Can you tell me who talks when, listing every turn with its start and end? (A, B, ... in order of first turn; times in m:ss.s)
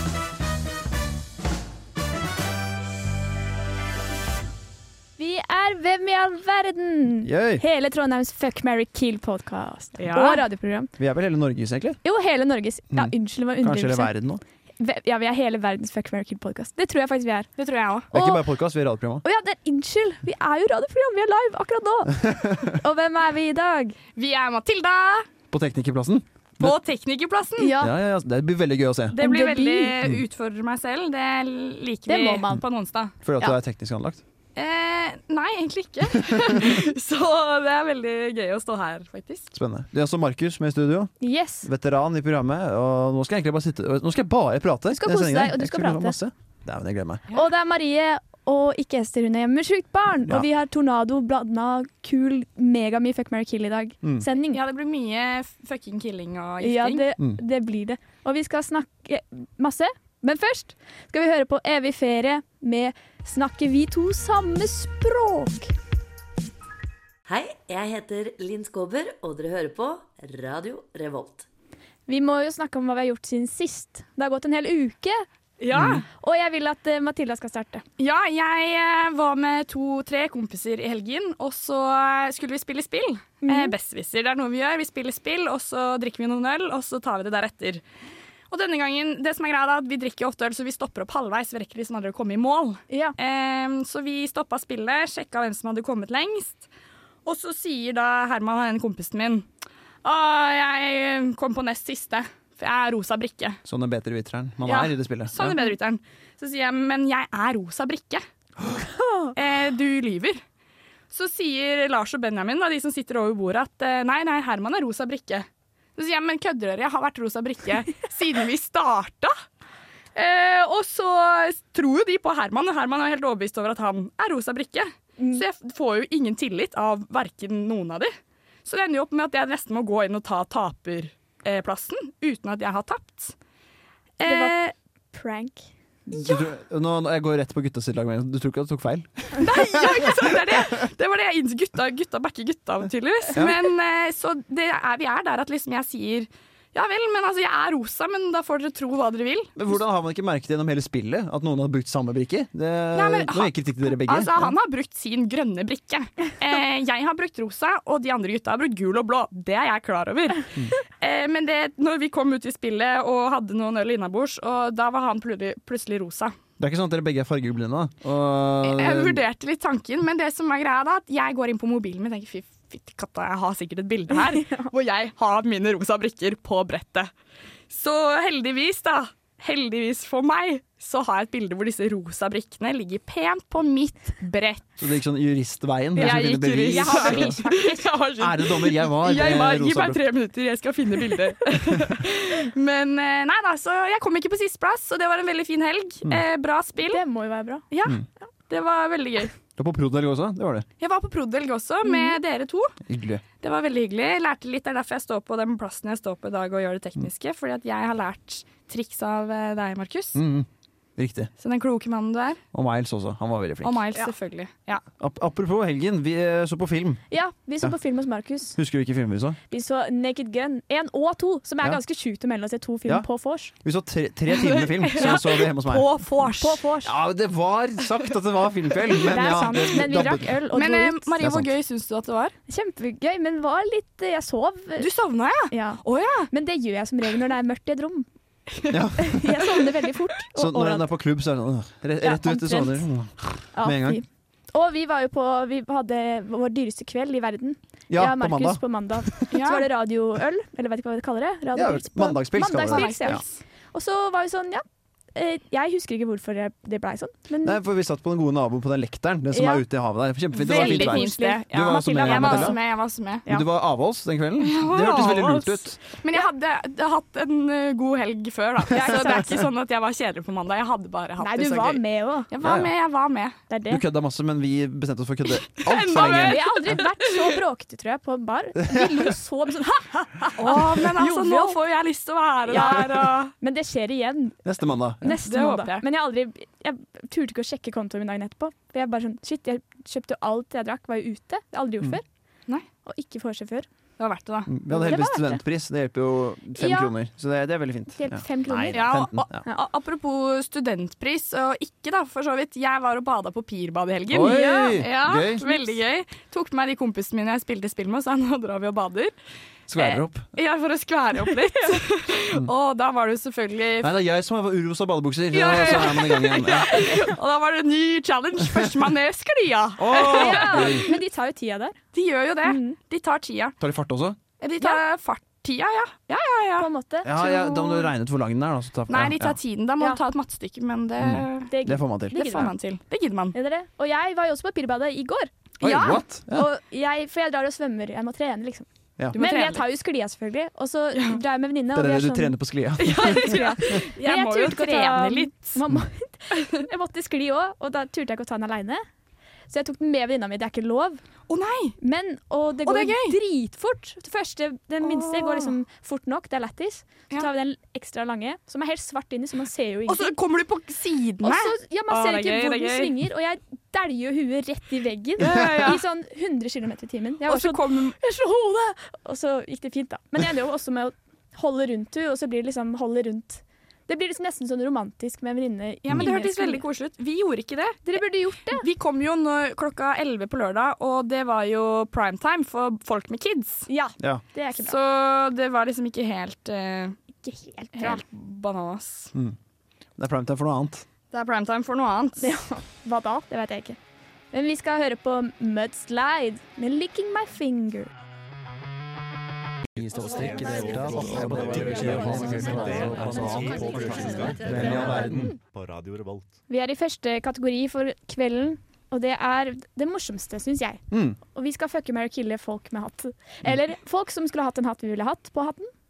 0:05.2-0:10.9 A
0:07.2-0:07.6 B
0:10.0-0:10.4 C
0:11.0-0:12.0 B
0:12.0-0:14.1 A
0:12.9-0:14.4 B
0:14.8-0:17.5 A
0:17.6-0:18.1 C
0:18.1-0:19.2 B
0:18.1-0:18.4 A
0:19.2-0:24.0 A
0:22.2-0:22.6 B
0:24.2-0:25.3 C
0:25.5-0:26.8 B
0:26.6-0:27.8 C
0:27.6-0:27.9 A
0:27.8-0:29.2 B
0:29.1-0:33.1 C
0:29.2-0:30.0 A
0:32.1-0:32.6 A
0:33.2-0:34.2 B
0:34.6-0:39.5 C
0:39.5-0:47.2 B
0:41.2-0:41.7 A
0:44.9-0:46.2 A
0:47.3-0:54.6 A
0:54.5-0:57.0 C
0:56.6-1:05.7 A
1:07.3-1:11.5 D
1:12.1-1:15.2 A
1:15.6-1:16.1 C
1:15.7-1:16.0 B
1:16.2-1:17.8 A
1:18.0-1:27.8 C
1:23.4-1:23.7 A
1:28.5-1:36.7 C
1:32.9-1:33.2 A
1:37.3-1:39.5 C
1:40.0-1:43.6 C
1:43.6-1:45.6 B
1:44.6-1:48.2 C
1:49.0-1:49.3 A
1:49.4-1:50.4 C
1:51.1-1:59.4 C
2:00.2-2:08.1 C
2:05.2-2:05.4 A
2:08.6-2:13.4 C
2:14.2-2:14.7 C
2:14.2-2:14.6 A
2:15.1-2:15.7 A
2:16.1-2:20.0 B
2:16.1-2:16.5 C
2:19.4-2:29.5 C
2:29.6-2:34.5 B
2:32.9-2:40.5 C
2:41.0-2:46.4 C
2:46.6-2:49.2 B
2:48.6-2:57.1 C
2:54.4-2:54.7 A
2:57.7-3:04.6 C
3:04.8-3:07.4 B
3:06.0-3:17.0 C
3:06.7-3:07.9 A
3:08.2-3:10.1 B
3:16.8-3:17.7 A
3:17.7-3:19.4 C
3:19.6-3:20.7 B
3:20.8-3:22.8 C
3:22.9-3:23.2 B
3:23.4-3:30.2 C
3:30.2-3:31.3 B
3:31.4-3:32.4 C
3:32.5-3:33.8 B
3:33.6-3:34.8 C
3:35.0-3:37.0 B
3:37.1-3:38.6 A
3:38.6-3:39.4 B
3:39.5-3:43.5 A
3:42.9-3:45.9 B
3:44.4-3:46.6 C
3:46.4-3:46.9 A
3:46.8-3:50.3 B
3:49.1-3:51.1 A
3:49.3-3:49.8 C
3:50.5-3:52.4 C
3:51.2-3:51.5 B
3:52.5-3:54.9 A
3:54.8-3:56.3 C
3:55.5-3:58.1 A
3:58.5-3:58.8 C
3:58.7-3:59.3 B
3:59.0-4:00.9 A
4:00.3-4:04.0 B
4:02.0-4:02.8 A
4:03.5-4:13.2 A
4:07.9-4:09.2 B
4:09.3-4:09.7 C
4:11.6-4:13.2 B
4:12.7-4:13.4 C
4:13.7-4:17.6 A
4:17.4-4:22.6 B
4:19.3-4:19.6 A
4:20.4-4:23.2 C
4:20.4-4:22.6 A
4:23.3-4:25.8 B
4:24.4-4:33.4 C
4:28.7-4:29.3 A
4:31.2-4:32.3 A
4:32.4-4:32.7 B
4:33.5-4:33.8 A
4:33.7-4:36.8 B
4:35.6-4:37.4 C
4:36.2-4:41.6 A
4:38.6-4:39.1 B
4:40.4-4:43.3 C
4:42.5-4:44.4 A
4:44.4-4:45.2 B
4:45.0-4:52.0 A
4:45.2-4:45.9 C
4:52.9-4:53.7 A
4:54.0-4:54.5 C
4:54.5-4:59.4 B
4:54.7-4:55.4 A
4:56.6-4:56.9 A
4:58.0-4:59.6 A
4:58.7-5:09.1 C
5:04.1-5:05.5 B
5:04.3-5:04.8 A
5:05.4-5:05.8 A
5:09.7-5:10.3 B
5:09.8-5:14.0 C
5:13.8-5:16.8 B
5:15.3-5:21.0 C
5:19.8-5:20.9 B
5:20.0-5:21.8 A
5:21.9-5:23.6 C
5:22.4-5:22.8 A
5:23.6-5:24.2 B
5:24.4-5:27.9 C
5:26.6-5:27.1 A
5:27.0-5:29.4 B
5:28.9-5:31.6 C
5:31.0-5:32.2 B
5:31.5-5:32.5 A
5:32.1-5:33.4 C
5:33.3-5:48.8 A
5:35.6-5:36.0 C
5:35.6-5:36.5 B
5:39.1-5:39.6 C
5:40.9-5:41.2 C
5:41.7-5:43.4 B
5:42.8-5:45.6 C
5:46.3-5:46.6 C
5:49.5-5:51.0 A
5:51.3-5:51.8 C
5:51.8-6:00.1 A
5:52.7-5:53.2 C
5:54.8-5:55.5 C
5:59.9-6:02.9 C
6:01.2-6:16.6 A
6:05.2-6:05.8 C
6:07.2-6:08.0 C
6:15.9-6:23.7 C
6:17.9-6:18.6 A
6:23.7-6:24.8 A
6:24.6-6:27.0 C
6:27.2-6:28.0 A
6:27.8-6:29.1 C
6:30.0-6:30.8 B
6:31.1-6:32.4 C
6:32.2-6:33.8 A
6:34.3-6:37.9 A
6:39.8-6:43.6 B
6:40.7-6:46.3 E
6:44.4-6:45.3 B
6:46.5-6:55.7 A
6:50.9-6:51.2 B